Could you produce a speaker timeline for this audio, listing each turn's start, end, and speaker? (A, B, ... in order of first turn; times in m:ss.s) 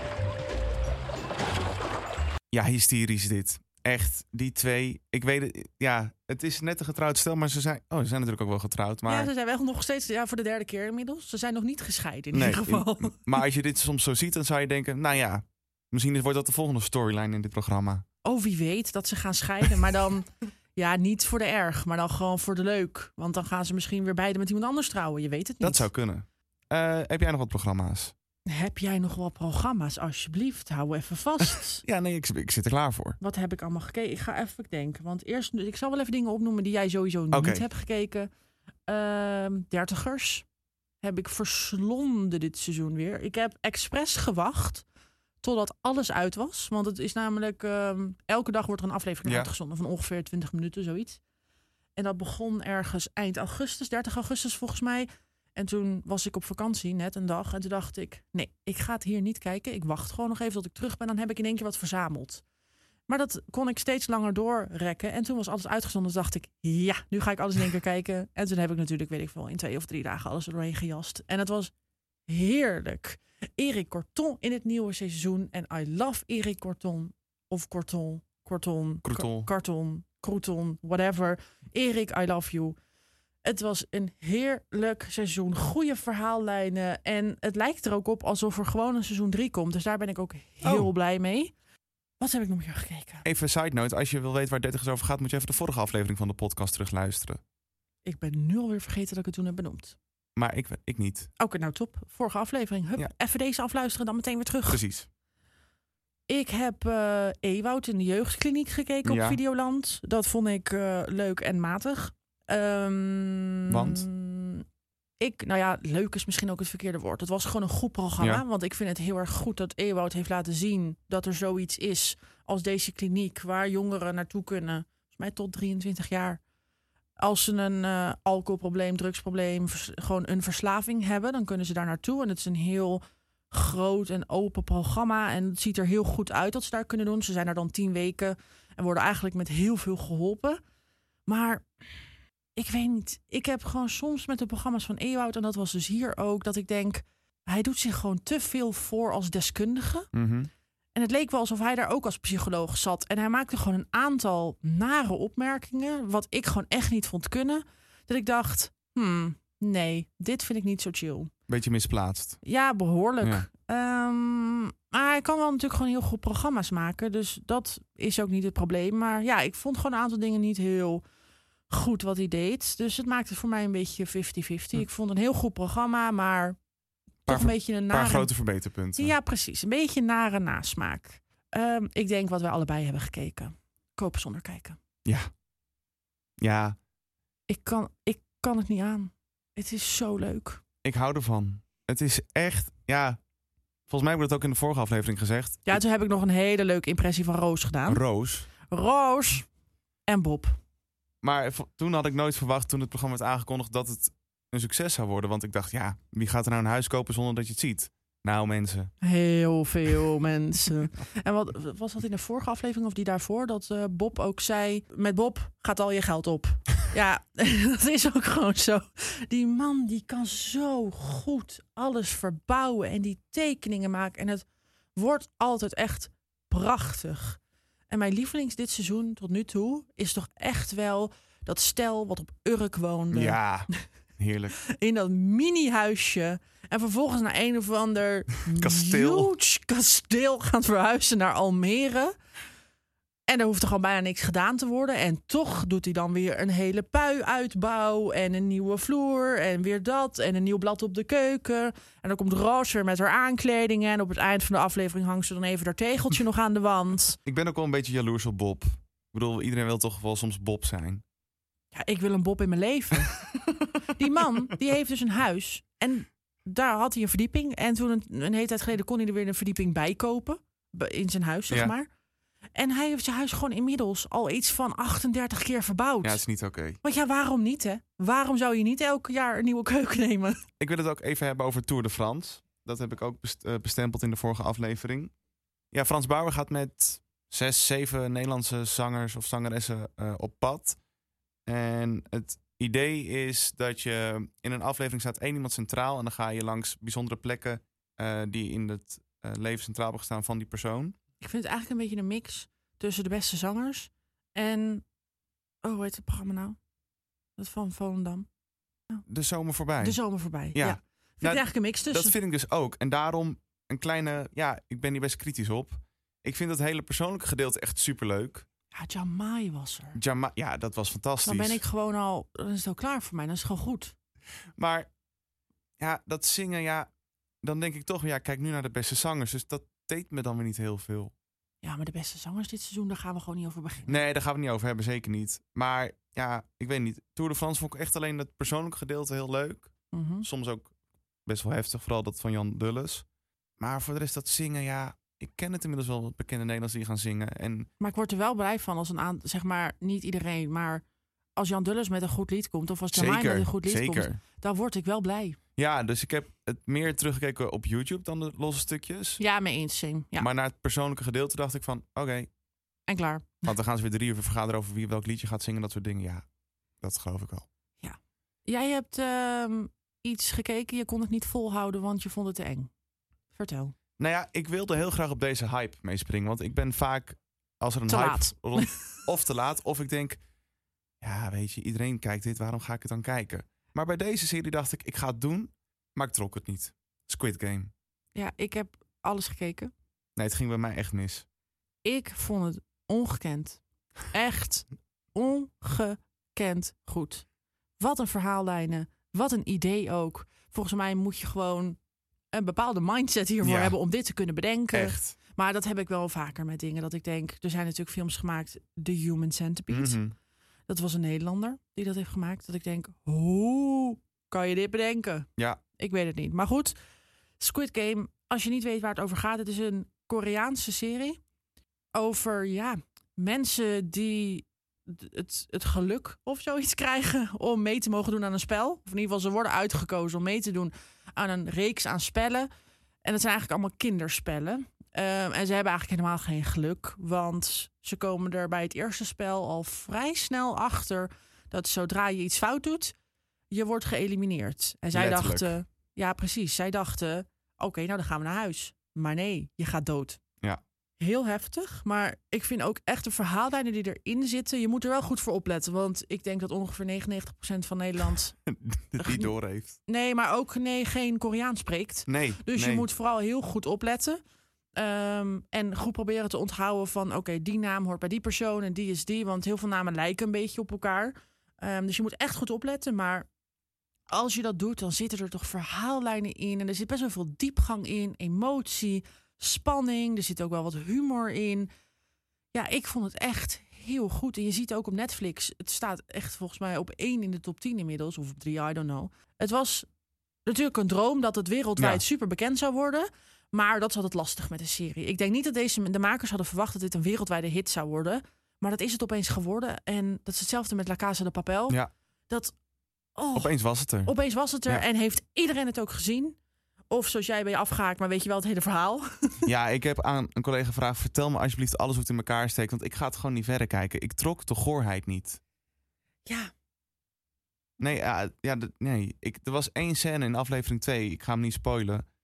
0:02.5-0:09.3 A
0:09.1-0:13.2 B
0:12.3-0:18.0 A
0:18.2-0:25.9 B
0:25.6-0:28.1 A
0:28.5-0:31.8 B
0:31.8-0:33.2 A
0:33.2-0:38.3 B
0:37.3-0:37.6 A
0:38.9-0:40.4 B
0:41.0-0:44.8 B
0:45.4-0:51.2 B
0:49.2-0:49.5 A
0:52.0-1:02.4 B
1:03.1-1:11.7 B
1:12.3-1:22.8 B
1:19.0-1:19.5 A
1:23.4-1:31.5 B
1:30.6-1:30.9 A
1:32.2-1:33.2 B
1:33.2-1:37.4 A
1:38.0-1:40.0 B
1:40.4-1:41.3 A
1:41.4-1:44.8 B
1:44.7-1:45.1 A
1:46.3-1:54.6 B
1:49.0-1:49.4 A
1:53.7-1:54.1 A
1:55.2-2:06.4 B
2:07.2-2:20.6 B
2:21.3-2:22.0 B
2:22.5-2:30.1 B
2:30.1-2:30.5 A
2:30.9-2:41.3 B
2:41.5-2:42.4 A
2:42.4-2:51.0 B
2:51.7-2:56.6 B
2:57.2-2:59.1 A
2:57.3-2:58.3 B
2:59.0-3:04.8 B
3:05.0-3:05.3 A
3:06.4-3:06.8 A
3:07.5-3:10.6 B
3:10.8-3:13.2 A
3:13.9-3:15.8 A
3:15.7-3:18.0 B
3:17.9-3:18.5 A
3:18.6-3:19.5 B
3:20.1-3:20.6 B
3:21.2-3:28.9 A
3:29.0-3:47.4 B
3:47.9-3:53.4 B
3:53.1-3:54.6 A
3:54.6-4:02.1 B
3:58.5-3:59.3 A
4:03.3-4:17.2 B
4:17.2-4:21.0 A
4:21.7-4:31.9 B
4:32.5-4:36.2 B
4:36.0-4:36.8 A
4:36.8-4:40.4 B
4:40.6-4:45.1 A
4:45.7-4:50.8 A
4:51.4-5:01.0 A
5:01.2-5:04.8 B
5:05.6-5:06.6 B
5:07.4-5:08.3 B
5:09.1-5:10.0 A
5:09.8-5:12.2 B
5:10.5-5:18.5 A
5:18.7-5:20.0 B
5:19.9-5:21.6 A
5:21.2-5:23.9 B
5:24.6-5:24.9 A
5:25.8-5:26.9 A
5:27.4-5:31.1 A
5:31.6-5:34.0 B
5:33.9-5:39.7 A
5:39.9-5:40.3 B
5:40.2-5:40.7 A
5:41.2-5:43.0 A
5:43.6-5:47.7 A
5:47.8-5:50.8 B
5:51.4-5:55.4 B
5:52.9-5:54.2 A
5:55.6-5:59.2 A
5:59.2-6:00.3 B
6:00.2-6:02.3 A
6:02.9-6:03.5 B
6:03.4-6:06.2 A
6:06.8-6:07.4 A
6:07.8-6:12.7 B
6:13.3-6:13.7 B
6:14.0-6:20.2 A
6:17.9-6:18.8 B
6:21.0-6:27.7 A
6:28.1-6:29.7 B
6:30.2-6:31.2 A
6:31.8-6:33.6 B
6:34.1-6:37.2 B
6:37.8-6:41.8 B
6:42.3-6:50.0 B
6:43.4-6:43.8 A
6:44.7-6:45.2 A
6:49.7-6:50.1 A
6:50.7-6:56.8 B
6:57.4-7:01.2 B
7:01.9-7:12.5 B
7:13.0-7:22.9 B
7:23.5-7:30.2 B
7:24.9-7:25.6 A
7:31.0-7:38.3 B
7:38.5-7:39.8 A
7:39.0-7:39.3 B
7:39.9-7:44.2 B
7:42.1-7:42.9 A
7:44.8-7:53.3 B
7:54.1-8:01.7 B
8:02.5-8:09.9 B
8:10.4-8:22.5 B
8:23.2-8:26.4 B
8:23.3-8:24.1 A
8:26.9-8:29.5 B
8:29.4-8:35.4 A
8:36.2-8:36.5 B
8:37.8-8:42.0 A